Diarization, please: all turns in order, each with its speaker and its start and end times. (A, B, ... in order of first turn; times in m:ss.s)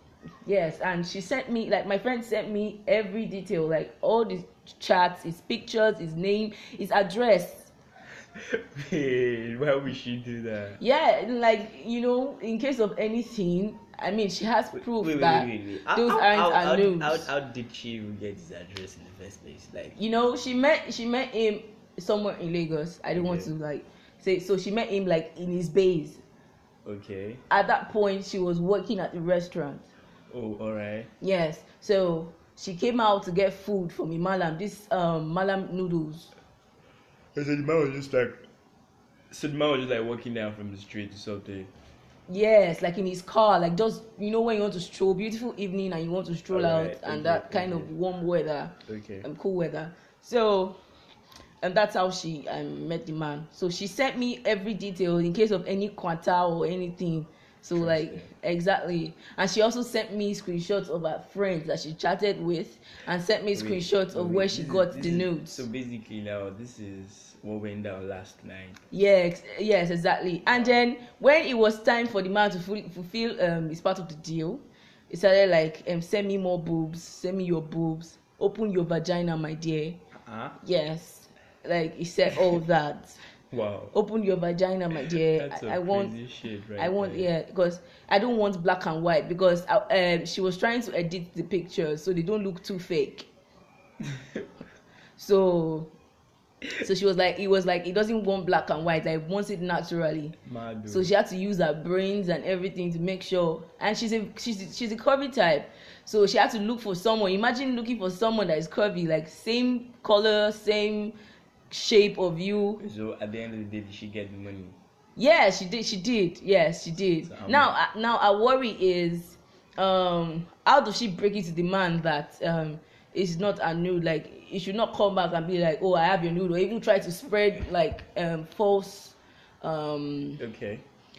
0:00.4-0:07.7 A
0:08.4-0:10.8 B
0:10.8-0:17.3 A
0:14.7-0:20.0 B
0:20.0-0:26.2 A
0:23.2-0:23.5 B
0:26.8-0:27.4 B
0:27.5-0:29.9 A
0:30.3-0:31.1 B
0:31.2-0:36.3 A
0:37.4-0:38.5 B
0:39.3-0:41.7 B
0:42.3-0:50.8 A
0:46.5-0:47.9 B
0:48.9-0:49.3 B
0:51.6-1:05.6 A
0:57.8-0:58.3 B
1:03.5-1:08.8 B
1:08.9-1:20.0 A
1:20.2-1:20.6 B
1:20.6-1:23.2 A
1:23.5-1:23.9 B
1:23.9-1:26.2 A
1:25.0-1:27.3 B
1:26.8-1:33.3 A
1:35.2-1:35.9 A
1:36.8-1:40.4 A
1:40.4-1:41.1 B
1:40.9-1:51.2 A
1:51.7-1:52.8 A
1:52.8-1:54.8 B
1:55.2-2:10.4 A
1:57.2-1:57.8 B
2:10.4-2:10.9 B